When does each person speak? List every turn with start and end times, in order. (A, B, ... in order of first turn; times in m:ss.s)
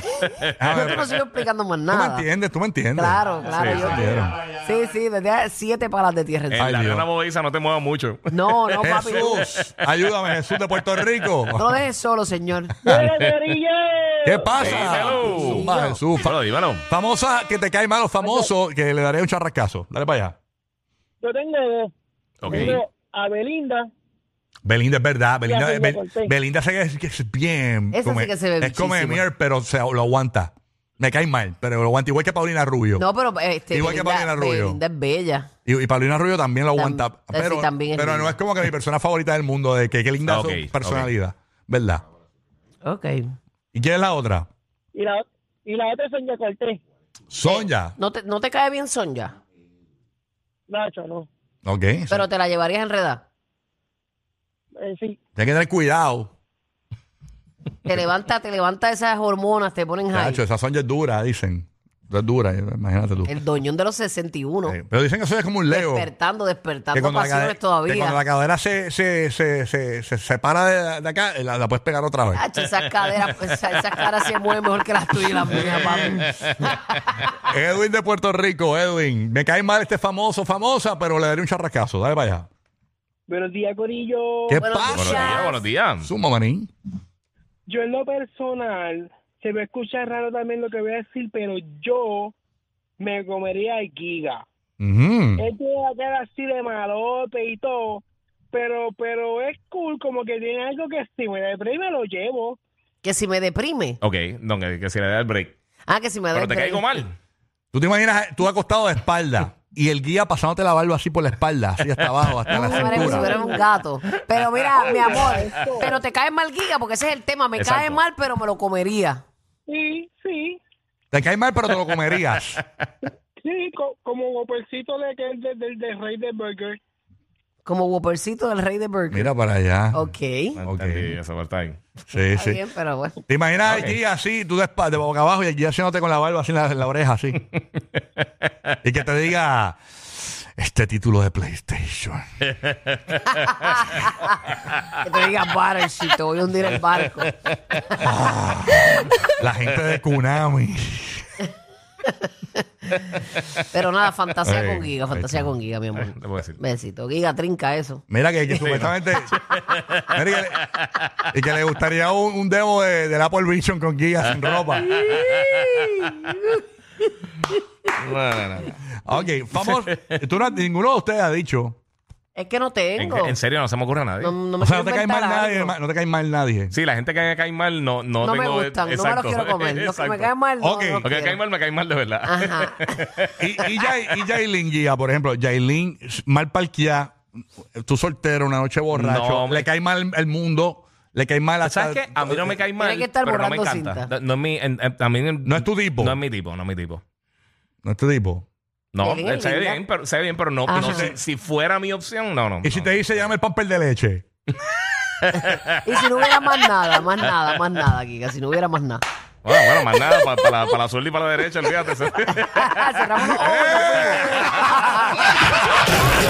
0:00.2-0:00.5 A
0:00.6-0:01.2 B
0:00.7-0:02.3 C
0:01.9-0:03.2 B
0:03.0-0:06.7 C
0:03.5-0:03.9 A
0:03.7-0:04.4 B
0:06.5-0:08.2 A
0:06.6-0:07.1 B
0:08.3-0:09.5 C
0:08.8-0:11.8 B
0:11.5-0:12.8 C
0:12.9-0:15.2 D
0:12.9-0:13.3 A
0:14.2-0:20.4 B
0:14.6-0:16.8 A
0:14.7-0:16.0 C
0:18.2-0:18.5 D
0:21.2-0:21.9 D
0:22.4-0:22.8 A
0:22.4-0:23.9 D
0:24.6-0:33.1 B
0:25.5-0:26.3 D
0:27.9-0:29.2 C
0:33.0-0:35.5 C
0:33.7-0:34.8 B
0:35.7-0:42.0 B
0:36.8-0:38.4 C
0:40.3-0:41.1 A
0:42.8-0:43.3 C
0:43.7-0:44.5 B
0:44.9-0:46.8 D
0:47.3-0:48.0 B
0:47.4-0:49.3 C
0:50.7-0:51.3 D
0:51.6-0:52.3 B
0:52.1-0:53.2 C
0:54.8-0:55.2 D
0:55.4-0:56.3 B
0:57.9-1:00.4 C
1:00.1-1:03.3 B
1:03.3-1:04.8 C
1:04.7-1:06.1 B
1:05.7-1:08.2 C
1:06.9-1:12.4 B
1:12.3-1:17.3 C
1:15.7-1:16.9 A
1:17.4-1:22.5 B
1:23.3-1:24.7 D
1:24.5-1:25.5 B
1:24.6-1:25.6 C
1:24.9-1:26.1 A
1:26.0-1:26.7 B
1:27.7-1:32.3 D
1:33.0-1:34.4 D
1:34.8-1:35.5 B
1:35.4-1:42.6 D
1:43.0-1:44.0 C
1:44.0-1:45.6 A
1:45.9-1:47.0 C
1:46.3-1:47.1 A
1:47.7-1:53.4 B
1:52.5-1:59.2 C
1:52.7-1:53.6 D
1:54.8-1:56.0 D
1:57.6-1:58.0 A
1:59.7-2:00.6 D
2:01.1-2:02.6 B
2:03.4-2:06.8 D
2:07.6-2:09.3 C
2:09.1-2:10.1 B
2:09.9-2:10.6 C
2:10.6-2:11.8 A
2:10.7-2:11.1 B
2:12.1-2:12.6 B
2:12.3-2:13.2 C
2:13.3-2:17.5 B
2:13.6-2:14.0 A
2:18.8-2:22.2 B
2:22.5-2:24.9 A
2:23.4-2:24.4 C
2:25.0-2:27.3 C
2:28.0-2:31.3 B
2:32.9-2:33.2 C
2:33.7-2:38.0 C
2:34.4-2:35.5 B
2:36.0-2:36.6 A
2:38.1-2:39.4 B
2:38.6-2:40.1 A
2:40.1-2:40.7 B
2:40.6-2:41.2 A
2:41.3-2:45.0 B
2:44.7-2:45.9 A
2:44.9-2:46.6 C
2:48.0-2:48.8 A
2:49.0-2:51.8 B
2:49.6-2:50.2 A
2:52.4-2:53.4 C
2:53.0-2:54.4 A
2:54.2-2:55.8 C
2:54.6-2:56.8 B
2:56.7-3:00.3 A
2:58.2-3:01.4 C
3:00.6-3:01.1 B
3:01.0-3:03.4 A
3:02.3-3:02.9 C
3:03.4-3:07.2 B
3:07.8-3:12.6 B
3:08.9-3:09.7 A
3:11.6-3:17.0 A
3:12.8-3:14.1 C
3:15.4-3:16.2 B
3:17.8-3:18.5 B
3:18.9-3:23.3 A
3:19.0-3:19.8 C
3:20.7-3:21.1 C
3:20.7-3:21.2 B
3:22.6-3:24.2 B
3:25.2-3:25.8 A
3:25.4-3:29.0 C
3:29.4-3:33.0 A
3:32.4-3:35.2 C
3:33.3-3:34.7 B